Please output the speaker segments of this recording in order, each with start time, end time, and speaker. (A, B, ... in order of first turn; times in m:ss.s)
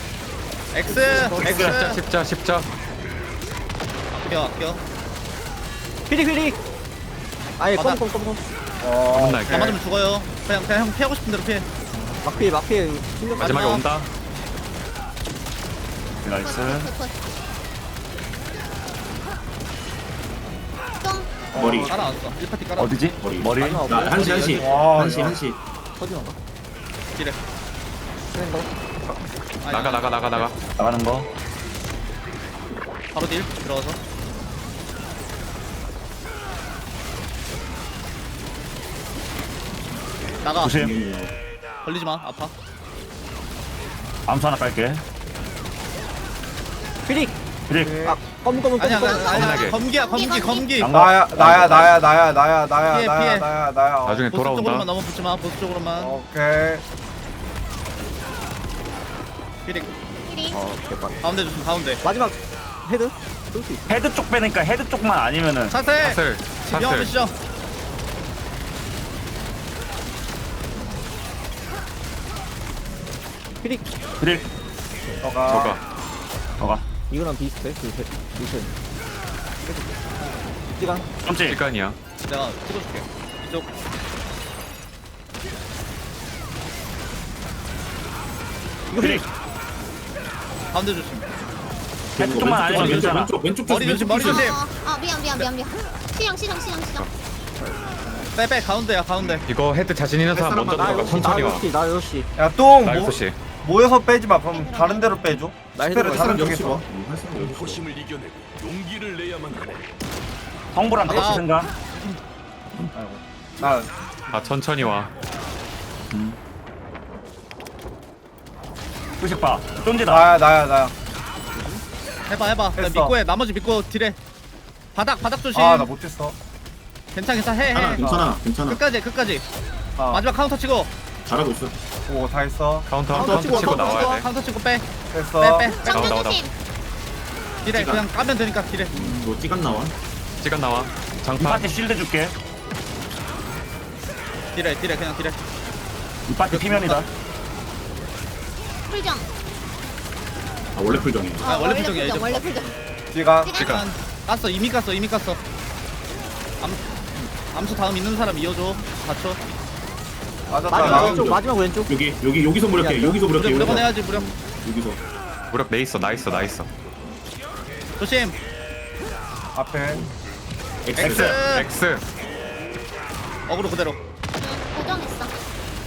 0:00.7-0:02.0 A
0:01.3-0:01.8 B
0:01.4-0:02.7 C
0:04.1-0:04.8 A
0:06.1-0:06.6 D
0:07.6-0:08.4 D
0:07.8-0:08.0 A
0:08.8-0:09.7 E
0:09.1-0:09.8 C
0:09.5-0:11.7 A
0:12.2-0:13.9 D
0:13.4-0:14.1 C
0:16.2-0:16.9 B
0:16.4-0:17.2 F
0:21.0-0:21.5 F
0:21.5-0:21.9 G
0:21.5-0:22.1 E
0:21.6-0:22.9 A
0:22.8-0:24.4 B
0:23.2-0:25.6 G
0:23.6-0:25.3 D
0:24.6-0:25.4 E
0:26.0-0:26.4 D
0:28.3-0:29.2 D
0:29.6-0:30.5 A
0:29.7-0:30.6 C
0:30.8-0:31.3 B
0:33.1-0:34.0 A
0:40.4-0:40.8 A
0:40.6-0:41.0 B
0:40.6-0:41.3 G
0:41.8-0:42.5 A
0:44.3-0:45.0 B
0:47.1-0:47.4 D
0:47.7-0:48.0 B
0:47.8-0:48.2 E
0:48.0-0:49.3 D
0:48.8-0:50.9 A
0:49.0-0:50.9 F
0:49.3-0:49.8 C
0:50.8-0:52.0 B
0:50.9-0:54.4 E
0:52.9-0:53.5 A
0:54.1-0:54.9 C
0:54.3-0:56.2 A
0:56.0-0:56.8 E
1:00.3-1:00.6 F
1:00.5-1:01.2 D
1:01.2-1:02.0 A
1:02.0-1:03.9 D
1:03.9-1:05.8 B
1:05.7-1:07.3 A
1:06.0-1:07.1 C
1:14.2-1:14.5 B
1:15.2-1:15.8 E
1:15.5-1:15.8 C
1:16.6-1:16.8 B
1:17.1-1:18.7 D
1:19.6-1:21.1 D
1:21.2-1:21.6 B
1:21.4-1:22.0 C
1:22.2-1:23.7 A
1:28.9-1:29.2 D
1:29.0-1:29.2 B
1:30.7-1:31.3 A
1:32.2-1:34.6 G
1:32.2-1:33.4 B
1:33.7-1:34.6 A
1:34.1-1:37.1 F
1:37.6-1:38.3 D
1:38.3-1:39.5 A
1:39.5-1:41.7 C
1:40.3-1:41.6 G
1:40.8-1:42.3 D
1:42.4-1:46.8 E
1:42.8-1:43.4 C
1:44.5-1:45.2 F
1:45.8-1:46.6 D
1:46.1-1:47.8 G
1:47.4-1:49.9 H
1:50.7-1:51.7 B
1:51.1-1:51.5 A
1:52.9-1:53.9 E
1:54.3-1:55.1 C
1:59.2-2:00.3 B
2:00.0-2:00.9 E
2:01.5-2:01.8 D
2:02.3-2:04.2 A
2:02.8-2:03.2 E
2:04.9-2:05.9 A
2:05.5-2:06.4 E
2:07.2-2:08.0 A
2:07.7-2:08.8 G
2:07.8-2:08.4 E
2:08.7-2:09.4 A
2:10.0-2:10.2 E
2:10.1-2:10.9 A
2:11.3-2:11.8 G
2:12.1-2:12.9 E
2:12.9-2:14.3 C
2:13.1-2:14.2 D
2:13.2-2:14.8 A
2:15.1-2:15.7 E
2:15.4-2:16.2 A
2:15.6-2:16.5 F
2:15.9-2:16.4 C
2:17.6-2:19.0 A
2:17.6-2:18.0 G
2:18.9-2:19.9 G
2:20.4-2:21.7 C
2:21.4-2:22.4 B
2:24.5-2:25.4 A
2:26.3-2:27.1 B
2:26.5-2:27.1 A
2:28.9-2:29.3 F
2:30.8-2:31.5 G
2:31.4-2:32.8 F
2:31.4-2:32.5 A
2:33.1-2:33.6 E
2:33.4-2:33.9 F
2:33.6-2:33.9 C
2:33.6-2:35.4 A
2:36.6-2:39.4 A
2:40.5-2:41.3 E
2:40.7-2:45.0 G
2:40.7-2:42.0 D
2:42.7-2:43.3 D
2:43.3-2:44.3 A
2:45.5-2:46.7 C
2:48.0-2:48.4 A
2:49.5-2:50.1 E
2:50.9-2:51.4 G
2:51.0-2:51.7 A
2:51.0-2:51.4 B
2:51.4-2:52.0 C
2:53.5-2:54.0 A
2:54.4-2:55.4 F